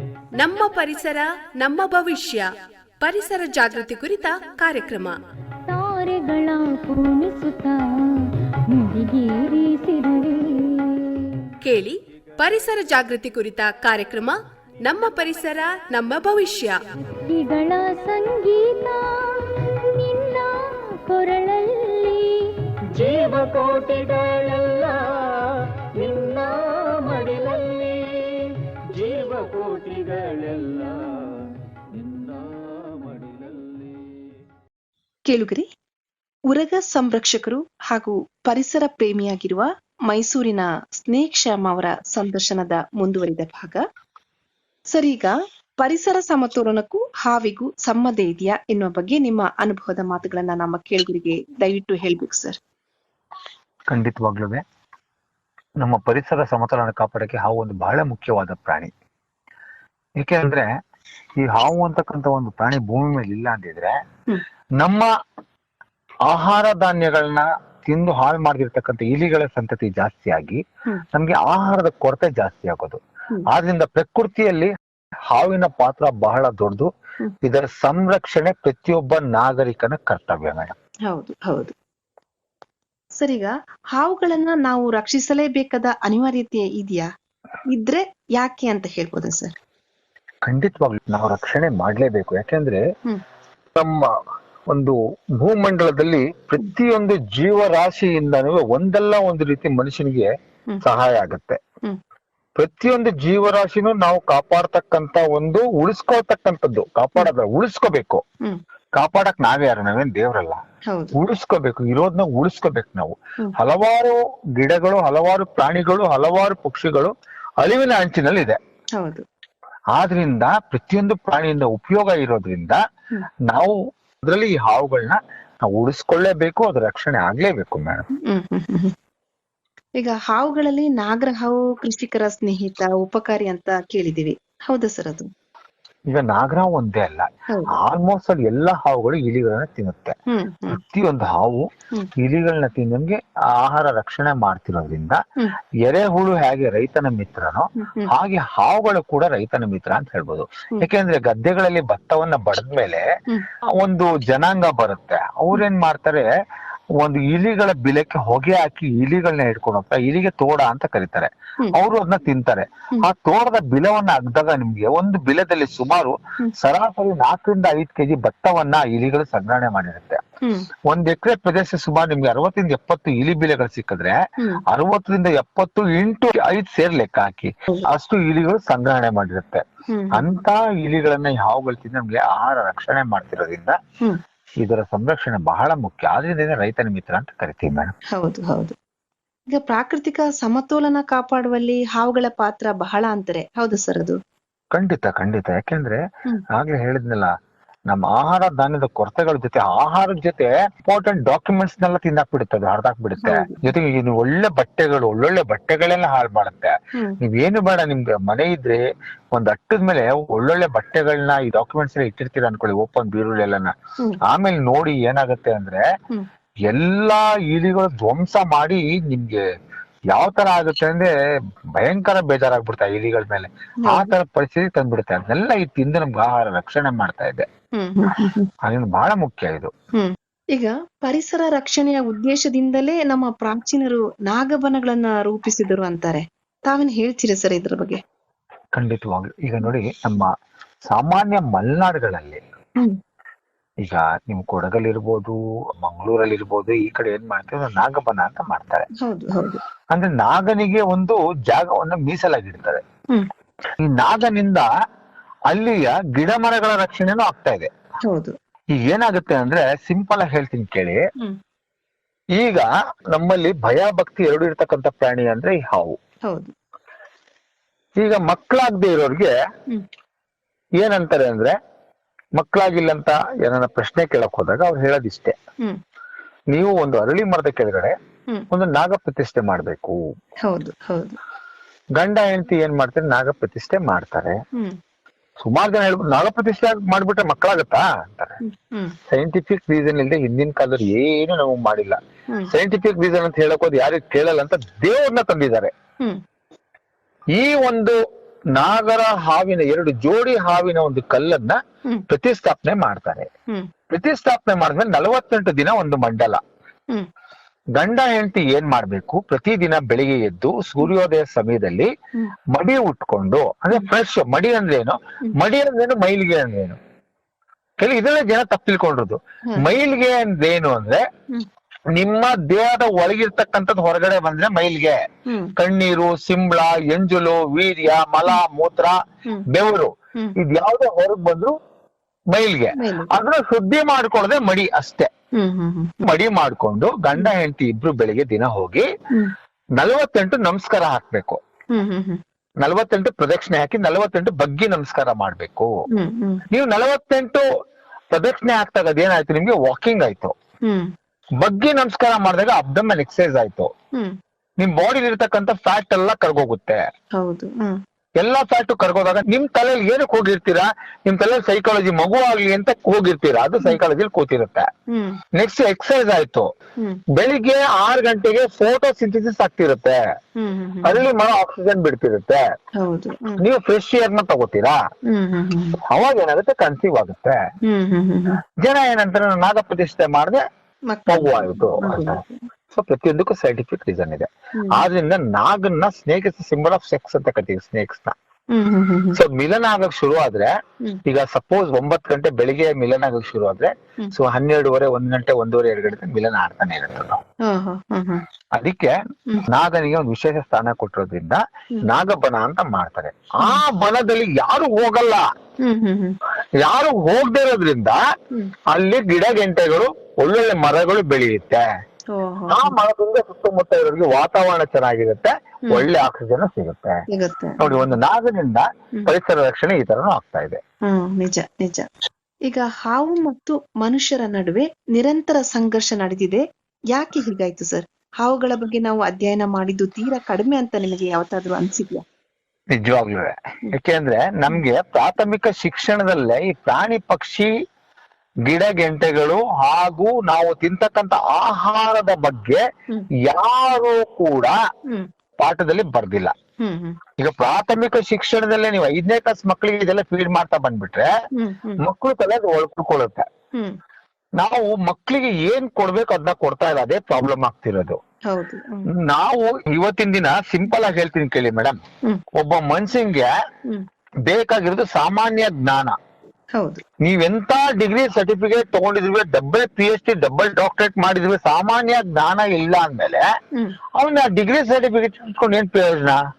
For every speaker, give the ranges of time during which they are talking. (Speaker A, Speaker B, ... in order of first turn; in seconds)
Speaker A: 0.4-2.5, 3.0-5.2, 11.6-16.8
Speaker B: 5.7-7.8, 8.7-11.0, 17.2-22.4
Speaker C: 23.0-25.4, 26.0-28.3, 28.9-31.4, 31.9-34.1
Speaker D: 35.3-35.7, 36.5-43.8, 44.9-52.6, 81.1-81.7, 83.2-87.1, 87.7-89.5, 110.9-111.2, 119.0-119.2, 128.2-128.9, 130.0-135.3, 140.3-140.8, 147.8-148.1, 170.4-170.7, 179.9-180.4, 188.1-188.7, 189.5-194.2, 203.2-203.7, 223.8-224.1, 227.8-228.5, 229.9-238.0, 249.0-249.6, 258.1-258.3, 266.3-266.5, 280.4-281.2, 288.4-288.9, 325.3-325.5, 332.8-333.1, 335.3-335.9, 341.7-342.2, 345.9-346.4, 350.6-350.9, 357.2-357.8, 364.9-365.2, 370.4-371.0, 372.8-373.4, 375.1-375.8, 377.6-378.4, 380.9-382.4, 384.6-384.9, 388.5-389.2, 397.4-398.2, 405.6-406.2, 412.1-412.8, 417.1-417.9, 420.9-421.9, 422.4-432.0, 446.6-447.0, 451.3-451.8, 458.3-458.9, 466.6-466.8
Speaker E: 53.9-54.6, 55.8-58.9, 60.2-60.7, 61.4-64.0, 64.8-65.1, 66.3-74.7, 75.3-76.9, 77.4-80.7, 90.5-92.8, 93.7-94.2, 94.7-100.3, 100.8-101.6, 102.6-108.2, 109.0-110.6, 111.1-118.6, 120.0-122.8, 123.4-128.1, 136.1-140.2, 140.7-145.2, 145.8-153.0, 153.7-156.3, 157.0-170.2, 170.8-174.2, 174.7-183.8, 184.6-187.9, 194.7-197.3, 197.9-208.8, 209.3-215.8, 216.7-219.4, 220.1-221.1, 221.8-227.4, 228.6-229.7, 238.8-240.3, 240.9-242.4, 243.8-248.9, 249.9-252.8, 253.8-254.7, 255.5-257.7, 258.8-261.0, 262.4-266.0, 268.0-269.3, 270.8-271.6, 272.4-275.4, 276.5-277.9, 278.5-280.0, 281.9-284.4, 285.4-288.4, 289.1-295.7, 297.3-298.0, 298.5-303.3, 303.9-306.4, 307.8-311.9, 312.5-316.8, 317.8-321.1, 321.9-325.0, 325.6-331.5, 332.3-335.1, 336.0-338.9, 339.8-341.4, 342.6-345.7, 346.5-347.4, 348.1-350.3, 351.4-353.7, 354.6-356.8, 358.2-364.7, 365.3-366.5, 367.1-370.0, 370.8-372.4, 373.4-374.8, 375.9-377.4, 378.6-380.4, 381.1-388.1, 389.1-390.5, 391.0-397.2, 398.5-405.3, 406.6-408.0, 408.7-411.6, 412.5-417.0, 417.6-420.6, 432.7-437.5, 438.4-442.6, 443.2-444.6, 445.4-446.3, 447.2-451.1, 451.8-453.3, 454.4-458.0, 458.9-461.8, 462.3-463.3, 464.2-465.9, 467.0-473.2, 474.0-476.2